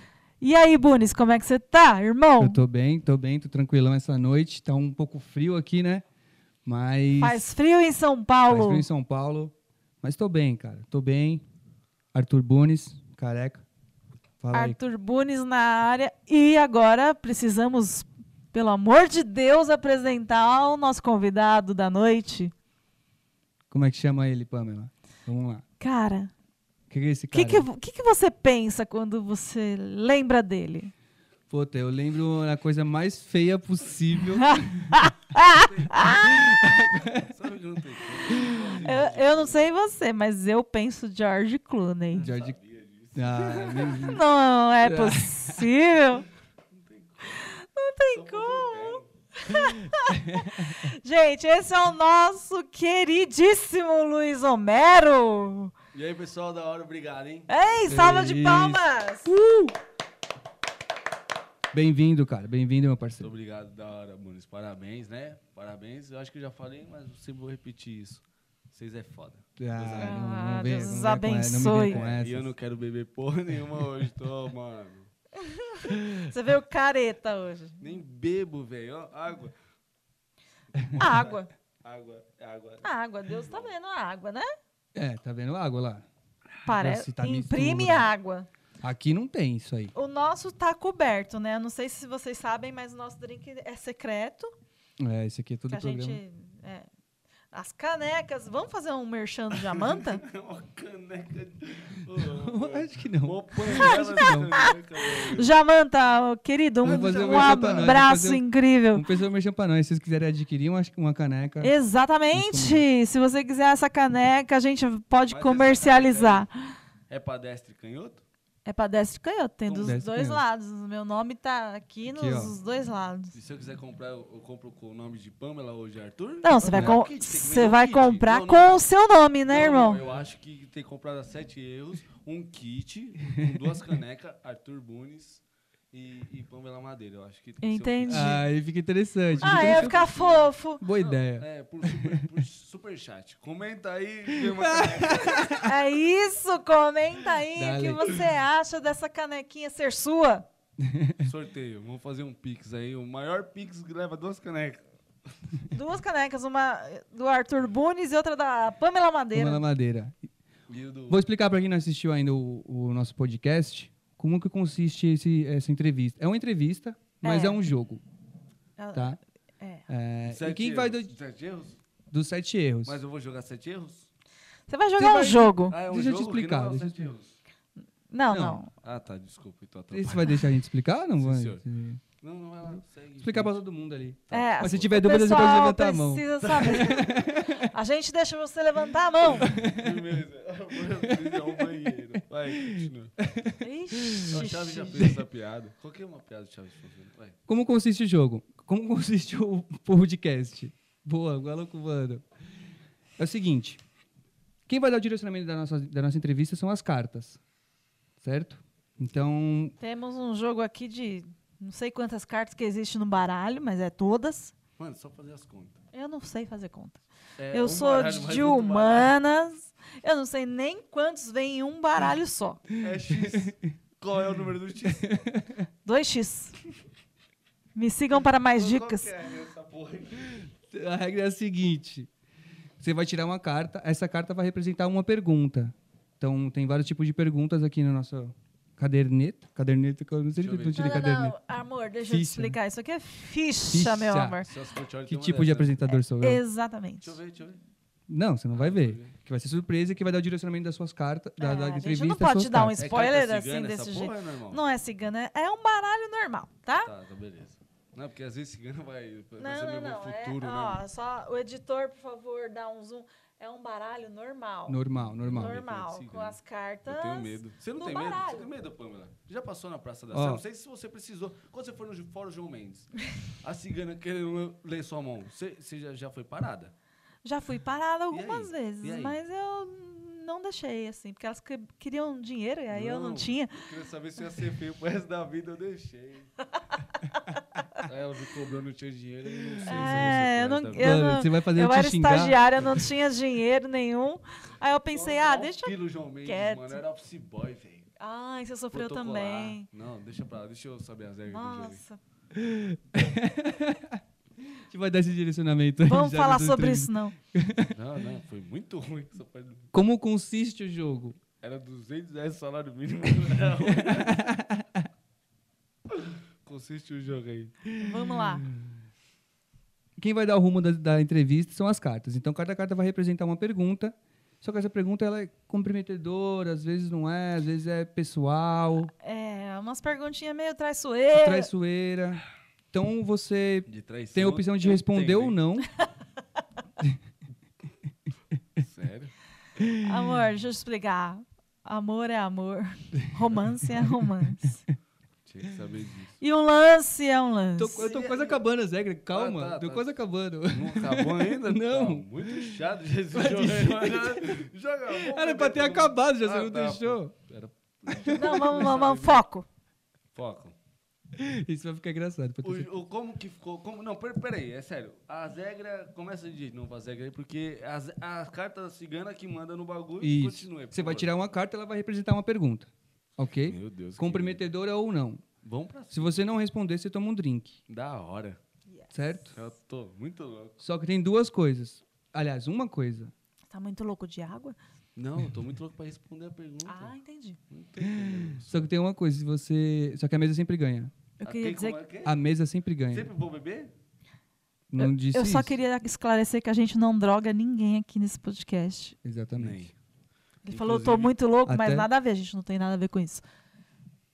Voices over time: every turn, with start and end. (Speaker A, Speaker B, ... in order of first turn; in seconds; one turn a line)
Speaker A: 0.4-2.6
Speaker B: 2.4-6.0
Speaker B: 6.6-7.4
Speaker A: 7.2-8.8
Speaker B: 8.5-11.4
Speaker B: 12.1-13.6
Speaker B: 14.4-14.8
Speaker A: 14.5-22.5
Speaker B: 23.7-25.6
Speaker A: 25.8-26.3
Speaker B: 26.9-27.7
Speaker A: 27.3-30.9
Speaker B: 31.5-35.1
Speaker A: 34.3-36.4
Speaker C: 35.4-36.2
Speaker B: 36.0-37.3
Speaker C: 37.1-39.7
Speaker B: 38.3-38.8
Speaker A: 38.8-42.3
Speaker C: 42.1-44.2
Speaker B: 42.2-42.6
Speaker B: 43.2-44.2
Speaker A: 44.0-46.2
Speaker B: 44.8-45.7
Speaker C: 46.7-47.5
Speaker A: 47.3-55.7
Speaker C: 48.1-49.1
Speaker B: 49.8-50.8
Speaker C: 55.9-57.9
Speaker A: 57.5-59.4
Speaker B: 57.9-59.7
Speaker B: 61.7-63.3
Speaker C: 63.2-70.2
Speaker B: 69.6-72.5
Speaker A: 70.0-72.0
Speaker C: 71.8-75.1
Speaker A: 75.4-77.8
Speaker B: 75.9-76.2
Speaker C: 77.8-79.5
Speaker C: 80.7-83.7
Speaker A: 81.0-81.5
Speaker A: 82.8-84.5
Speaker B: 85.0-86.1
Speaker A: 86.7-88.5
Speaker B: 86.7-88.1
Speaker B: 88.8-89.9
Speaker A: 90.0-94.5
Speaker B: 95.0-96.2
Speaker A: 95.7-96.9
Speaker A: 97.5-100.2
Speaker C: 99.8-105.5
Speaker B: 102.2-104.5
Speaker A: 103.7-109.1
Speaker C: 106.8-108.0
Speaker B: 106.8-111.7
Speaker A: 111.6-116.5
Speaker B: 112.3-112.8
Speaker C: 115.3-116.5
Speaker C: 117.1-118.2
Speaker A: 118.7-123.3
Speaker C: 119.7-120.0
Speaker B: 119.8-120.4
Speaker B: 122.1-122.5
Speaker C: 123.3-128.8
Speaker A: 126.4-130.0
Speaker B: 126.7-127.0
Speaker C: 129.5-138.4
Speaker B: 133.3-133.7
Speaker A: 137.6-138.4
Speaker B: 138.1-140.1
Speaker C: 139.3-145.7
Speaker A: 139.4-140.8
Speaker B: 140.8-142.3
Speaker B: 144.3-145.7
Speaker A: 145.6-150.4
Speaker B: 147.6-148.1
Speaker B: 150.8-151.3
Speaker C: 151.2-155.3
Speaker A: 155.7-159.6
Speaker B: 159.3-160.2
Speaker C: 160.7-161.2
Speaker B: 161.1-168.0
Speaker A: 167.2-167.6
Speaker A: 168.8-169.8
Speaker B: 168.9-169.2
Speaker B: 169.9-171.1
Speaker C: 170.2-171.8
Speaker B: 172.1-173.0
Speaker C: 172.8-174.1
Speaker A: 174.7-175.8
Speaker C: 175.0-177.3
Speaker B: 175.8-177.1
Speaker A: 178.1-178.7
Speaker B: 178.3-178.6
Speaker C: 178.8-180.5
Speaker B: 179.9-182.0
Speaker C: 181.2-181.6
Speaker C: 182.2-183.6
Speaker B: 183.2-187.6
Speaker C: 184.3-184.8
Speaker A: 184.3-189.6
Speaker B: 189.3-190.1
Speaker C: 189.5-193.1
Speaker B: 191.0-191.9
Speaker B: 192.6-194.4
Speaker A: 193.6-195.1
Speaker C: 194.2-197.4
Speaker B: 197.5-202.2
Speaker B: 203.2-203.8
Speaker B: 204.7-207.4
Speaker B: 208.2-209.7
Speaker A: 209.8-214.5
Speaker C: 214.8-215.8
Speaker A: 215.9-222.6
Speaker C: 217.4-219.1
Speaker C: 222.8-225.2
Speaker B: 223.3-223.7
Speaker B: 224.9-225.7
Speaker A: 225.8-226.5
Speaker A: 227.7-229.1
Speaker C: 228.2-230.4
Speaker B: 230.7-232.1
Speaker B: 232.8-241.3
Speaker C: 240.4-241.0
Speaker A: 240.8-244.5
Speaker B: 242.1-242.6
Speaker B: 243.7-244.4
Speaker C: 244.4-245.8
Speaker B: 245.1-246.4
Speaker A: 245.9-247.2
Speaker C: 247.0-247.6
Speaker B: 248.1-252.8
Speaker C: 248.5-249.2
Speaker A: 251.4-256.9
Speaker C: 252.8-254.6
Speaker C: 256.8-260.8
Speaker A: 259.4-268.5
Speaker B: 264.7-265.6
Speaker C: 264.9-276.7
Speaker B: 270.1-270.4
Speaker A: 277.2-283.6
Speaker C: 278.1-279.2
Speaker C: 282.7-286.3
Speaker C: 287.8-291.0
Speaker B: 289.6-290.1
Speaker A: 289.6-296.8
Speaker B: 290.8-292.7
Speaker C: 294.9-297.9
Speaker A: 298.0-299.7
Speaker C: 298.7-301.8
Speaker A: 301.3-302.0
Speaker B: 302.3-307.8
Speaker A: 305.9-307.1
Speaker C: 307.7-309.7
Speaker B: 309.7-311.2
Speaker C: 311.4-314.3
Speaker B: 313.5-314.9
Speaker C: 315.9-317.7
Speaker A: 317.8-318.4
Speaker B: 320.0-328.9
Speaker A: 329.0-331.5
Speaker B: 331.1-335.7
Speaker C: 333.7-335.4
Speaker C: 338.6-339.1
Speaker A: 339.8-344.6
Speaker C: 345.2-346.2
Speaker A: 346.2-348.1
Speaker B: 347.6-352.6
Speaker C: 347.8-348.4
Speaker C: 349.1-359.2
Speaker B: 353.1-357.1
Speaker B: 357.9-358.3
Speaker A: 358.1-359.5
Speaker C: 360.1-360.6
Speaker B: 361.1-362.7
Speaker C: 362.4-371.1
Speaker B: 370.0-375.2
Speaker C: 373.4-374.4
Speaker C: 375.4-376.2
Speaker B: 375.9-377.6
Speaker C: 377.7-378.4
Speaker A: 378.7-379.2
Speaker B: 378.9-379.4
Speaker C: 379.3-380.6
Speaker B: 380.6-383.1
Speaker A: 383.5-384.6
Speaker C: 385.0-386.9
Speaker A: 386.6-387.4
Speaker C: 387.5-388.7
Speaker B: 387.9-390.9
Speaker A: 391.2-391.8
Speaker C: 391.2-392.2
Speaker B: 392.0-393.1
Speaker C: 392.9-393.7
Speaker B: 394.7-395.6
Speaker A: 394.8-398.9
Speaker B: 399.0-399.6
Speaker C: 399.4-399.7
Speaker A: 400.5-403.2
Speaker C: 400.5-401.1
Speaker B: 401.5-401.9